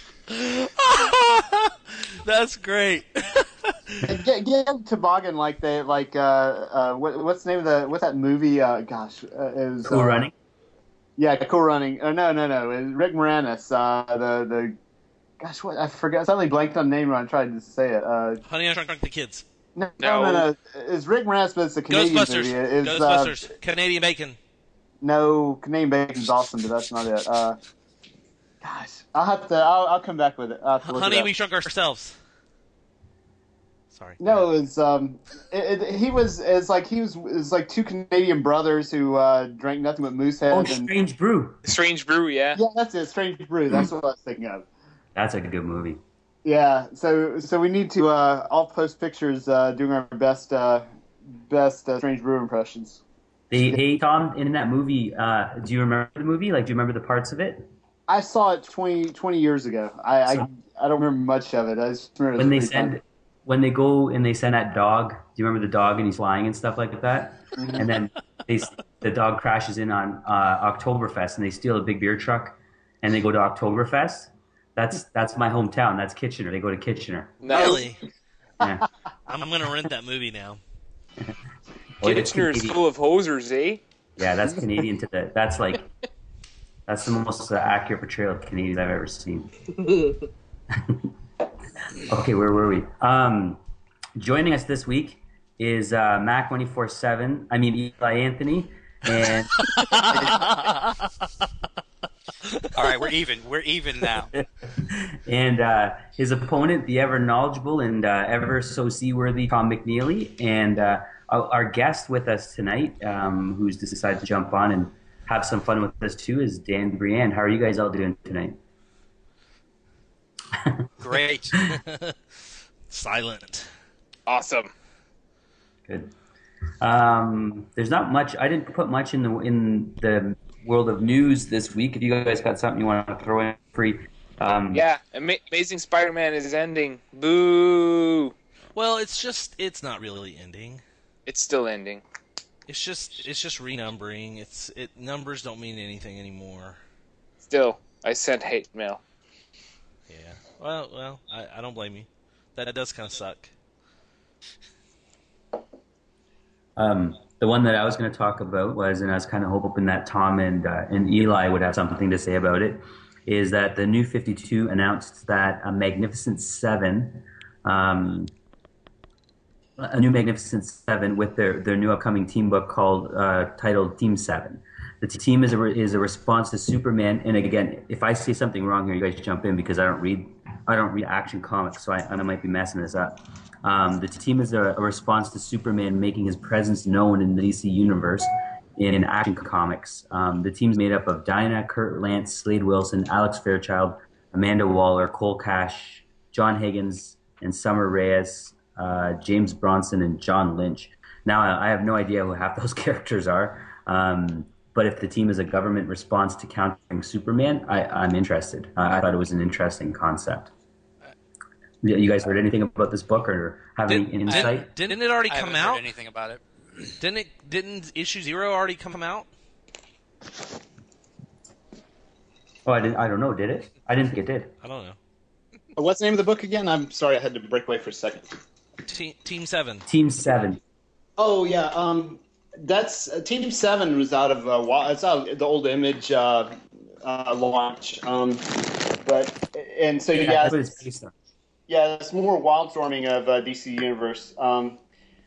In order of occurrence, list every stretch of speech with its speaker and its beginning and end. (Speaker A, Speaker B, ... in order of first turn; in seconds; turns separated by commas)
Speaker A: 0.3-4.0, Speaker B: 4.0-10.3, Speaker C: 9.9-10.3, Speaker B: 11.2-14.8, Speaker B: 15.4-18.4, Speaker A: 18.5-19.4, Speaker B: 19.8-23.4, Speaker D: 20.0-20.5, Speaker A: 21.9-24.4, Speaker B: 25.0-27.6, Speaker B: 28.6-31.3, Speaker A: 30.8-32.2, Speaker A: 33.9-34.5, Speaker B: 34.2-40.9, Speaker C: 40.5-41.6, Speaker D: 41.7-42.6, Speaker B: 42.6-44.7, Speaker C: 45.1-46.0, Speaker B: 46.5-50.9, Speaker B: 51.5-53.0, Speaker C: 53.5-57.7, Speaker B: 58.1-62.9, Speaker C: 62.4-77.7, Speaker B: 67.6-67.8, Speaker D: 77.4-77.8, Speaker A: 77.5-78.0, Speaker C: 78.6-78.9, Speaker A: 79.3-80.6, Speaker C: 82.0-82.8, Speaker D: 82.0-83.8, Speaker C: 84.2-85.8, Speaker C: 86.9-89.5, Speaker C: 90.7-91.1, Speaker C: 92.0-93.6, Speaker C: 94.2-100.5, Speaker A: 99.7-101.1, Speaker A: 102.5-103.0, Speaker E: 102.8-104.3, Speaker C: 104.4-118.6, Speaker C: 120.5-121.1, Speaker E: 121.0-121.5, Speaker A: 121.7-122.2, Speaker A: 122.9-123.7, Speaker D: 124.3-124.7, Speaker C: 125.9-126.1, Speaker C: 126.8-134.9, Speaker D: 134.7-138.3, Speaker A: 138.8-140.8, Speaker D: 141.3-142.0, Speaker A: 142.7-146.8, Speaker D: 147.5-149.0, Speaker A: 150.1-153.5, Speaker C: 156.8-168.3, Speaker C: 169.8-210.5, Speaker C: 211.8-214.7, Speaker A: 213.9-215.9, Speaker E: 214.3-216.4, Speaker A: 217.0-219.3, Speaker C: 222.7-224.5, Speaker A: 224.6-225.0, Speaker B: 225.8-228.3, Speaker A: 228.9-229.9, Speaker C: 229.9-230.6, Speaker B: 231.2-240.6, Speaker C: 240.2-241.1, Speaker B: 241.7-244.8